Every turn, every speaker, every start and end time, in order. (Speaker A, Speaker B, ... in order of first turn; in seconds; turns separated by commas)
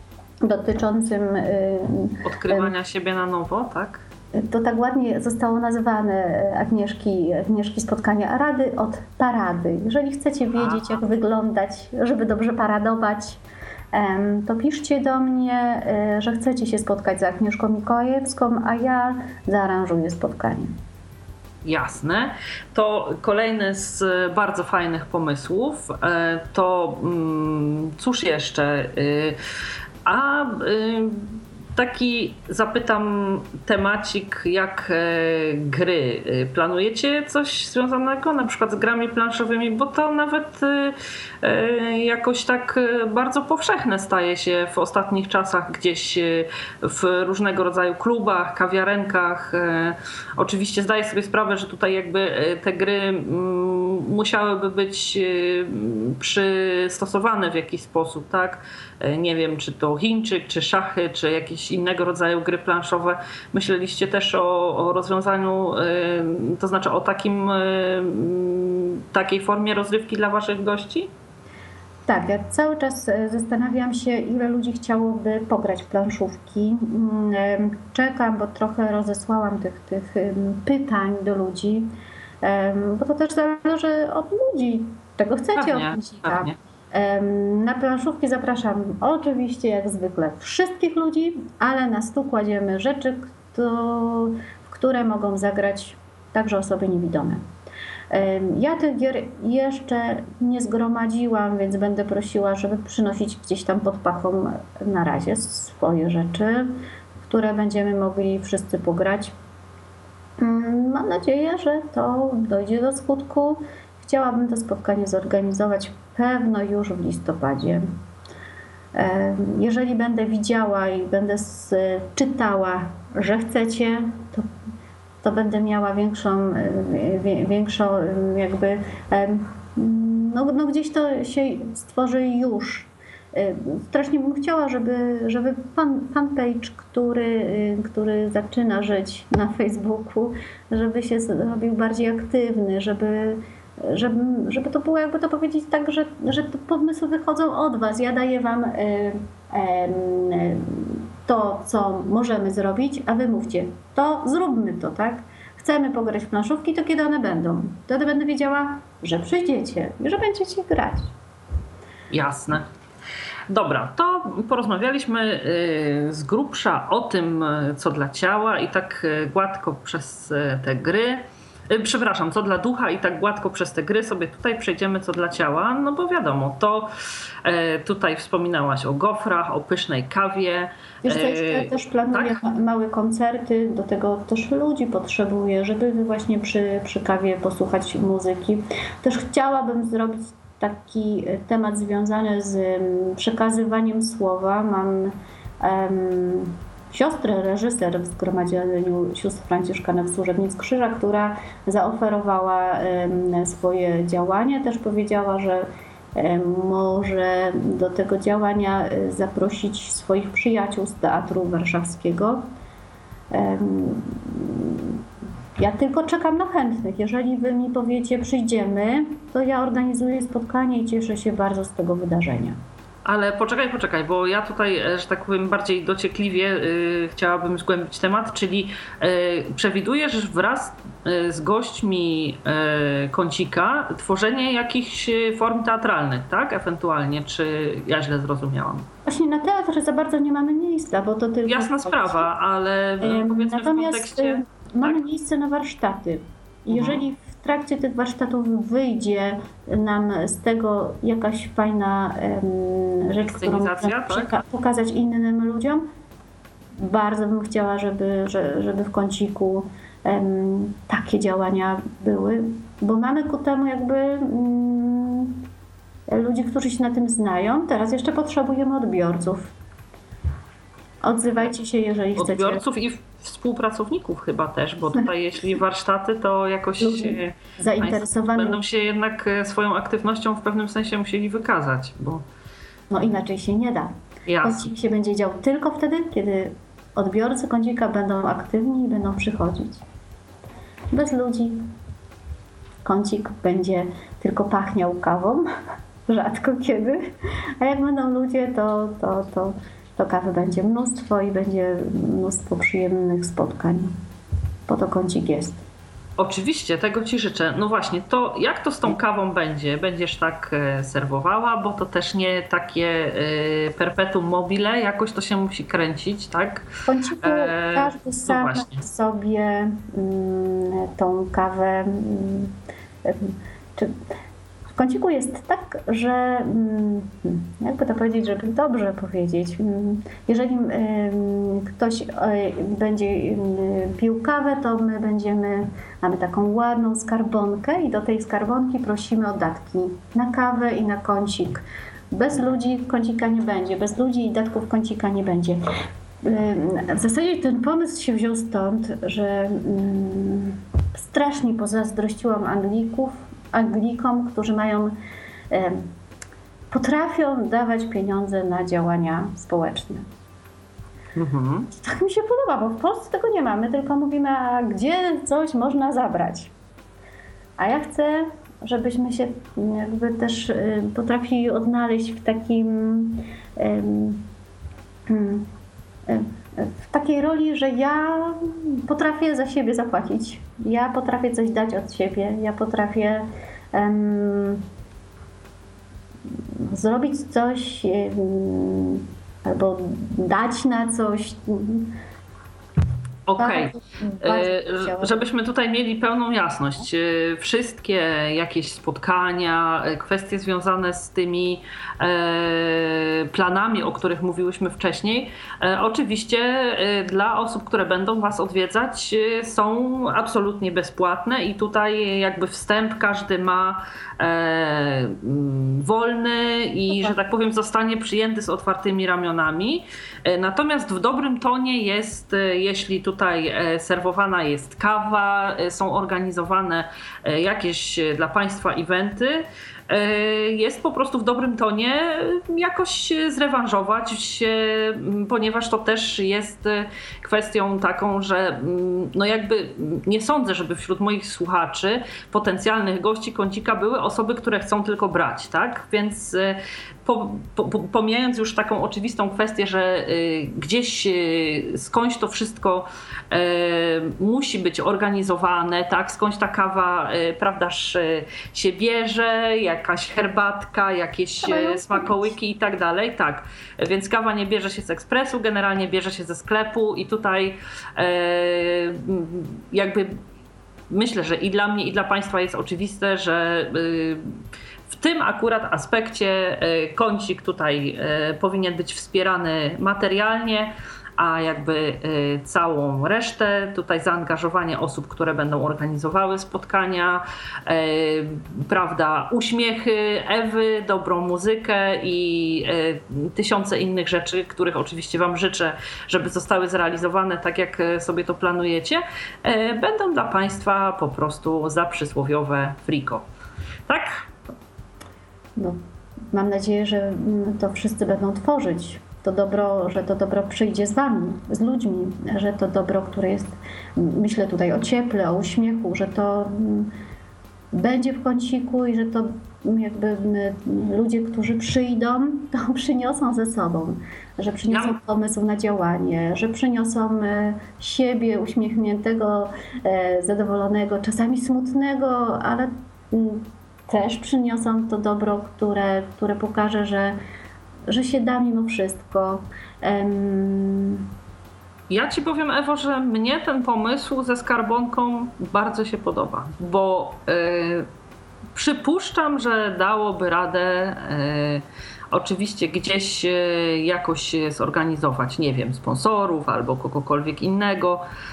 Speaker A: 0.4-2.7, Speaker B: 2.2-4.0, Speaker A: 4.3-13.4, Speaker B: 10.6-11.0, Speaker A: 13.9-20.7, Speaker B: 21.6-29.4, Speaker B: 30.1-71.1, Speaker A: 72.1-81.9, Speaker A: 82.4-97.4, Speaker B: 85.6-86.5, Speaker A: 98.1-106.7, Speaker A: 107.2-109.3, Speaker A: 110.4-117.9, Speaker A: 119.0-124.5, Speaker A: 125.2-161.1, Speaker B: 162.1-162.7, Speaker B: 163.5-176.9, Speaker B: 177.4-182.4, Speaker A: 181.0-212.4, Speaker A: 213.3-215.0, Speaker A: 215.6-222.6, Speaker B: 223.1-238.9, Speaker A: 239.1-242.3, Speaker B: 241.5-245.0, Speaker A: 243.0-255.9, Speaker B: 246.7-247.0, Speaker B: 253.2-254.4, Speaker A: 256.8-265.4, Speaker A: 266.1-269.5, Speaker A: 271.0-272.6, Speaker B: 272.2-282.2, Speaker A: 276.8-278.6, Speaker A: 282.9-289.8, Speaker B: 284.3-284.7, Speaker A: 290.9-291.7, Speaker A: 292.8-295.5, Speaker A: 296.1-297.0, Speaker A: 297.6-303.9, Speaker A: 304.7-305.6, Speaker B: 306.2-316.7, Speaker A: 316.9-322.5, Speaker B: 317.2-318.8, Speaker A: 323.1-323.9, Speaker A: 324.8-345.6, Speaker A: 346.2-354.9, Speaker A: 355.5-355.9, Speaker A: 356.7-360.1, Speaker B: 361.2-361.7, Speaker A: 361.7-366.5, Speaker A: 367.6-374.3, Speaker A: 375.1-375.5, Speaker A: 376.1-384.6, Speaker A: 386.6-391.9, Speaker B: 393.3-470.2, Speaker A: 393.4-395.2, Speaker A: 461.4-462.3, Speaker B: 470.9-474.4, Speaker B: 474.9-503.2, Speaker B: 503.9-504.3, Speaker A: 506.3-516.9, Speaker A: 517.7-537.2, Speaker B: 524.7-525.0, Speaker A: 537.9-541.0, Speaker B: 541.9-547.9, Speaker B: 548.5-558.0